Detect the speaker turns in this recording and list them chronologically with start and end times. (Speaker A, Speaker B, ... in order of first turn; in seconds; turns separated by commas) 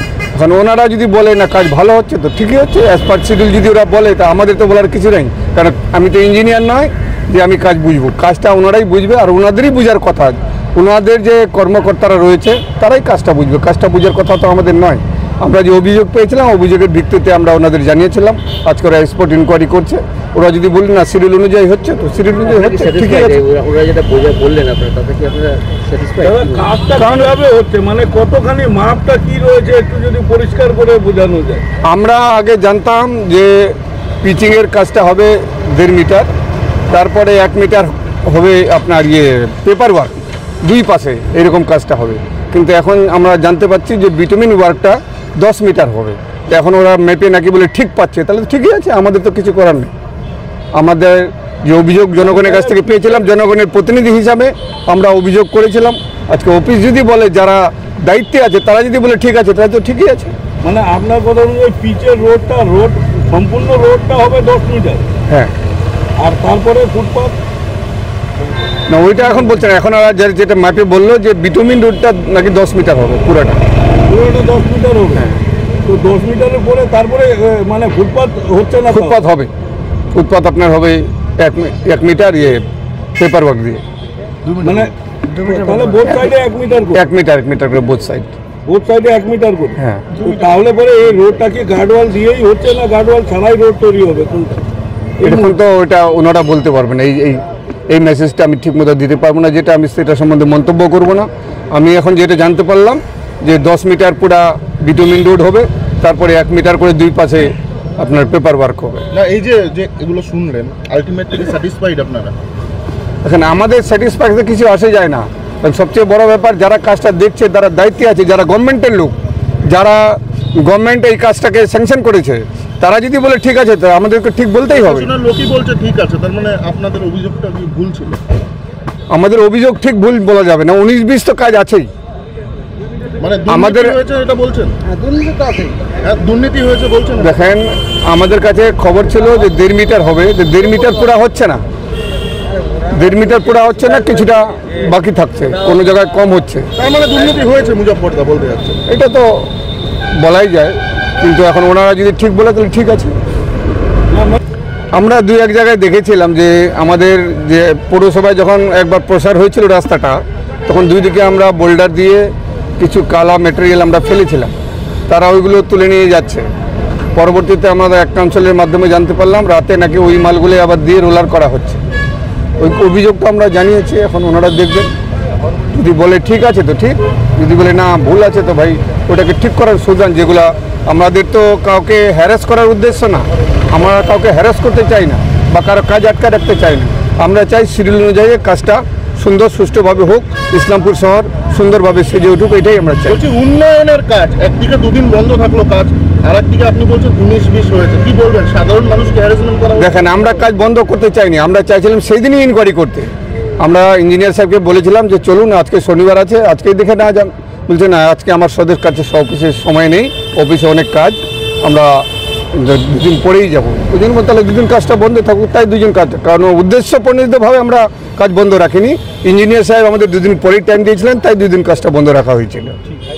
Speaker A: 0.3-23.4, Speaker B: 22.4-26.7, Speaker C: 26.2-31.7, Speaker A: 26.9-27.2, Speaker A: 31.9-36.3, Speaker A: 36.9-49.9, Speaker A: 50.8-60.3, Speaker C: 52.2-53.3, Speaker C: 60.6-65.1, Speaker C: 66.2-67.3, Speaker A: 68.9-73.6, Speaker C: 74.1-75.3, Speaker C: 75.8-79.2, Speaker A: 78.9-79.5, Speaker A: 80.1-82.6, Speaker A: 83.2-83.8, Speaker C: 84.6-87.0, Speaker A: 86.9-88.3, Speaker C: 88.7-94.6, Speaker A: 89.8-90.1, Speaker C: 95.2-95.6, Speaker A: 95.2-109.0, Speaker D: 109.1-112.3, Speaker A: 113.2-119.1, Speaker A: 119.7-125.1, Speaker D: 124.7-128.2, Speaker A: 129.1-131.9, Speaker D: 133.2-134.8, Speaker A: 133.5-134.0, Speaker B: 135.2-135.7, Speaker D: 135.9-137.3, Speaker A: 137.2-141.6, Speaker A: 142.9-146.7, Speaker D: 146.8-148.8, Speaker A: 148.9-149.5, Speaker A: 150.2-153.2, Speaker C: 154.1-154.4, Speaker A: 154.9-164.5, Speaker A: 165.1-166.5, Speaker A: 167.1-171.8, Speaker A: 172.6-174.9, Speaker A: 175.7-193.2, Speaker D: 193.1-200.3, Speaker A: 199.8-222.8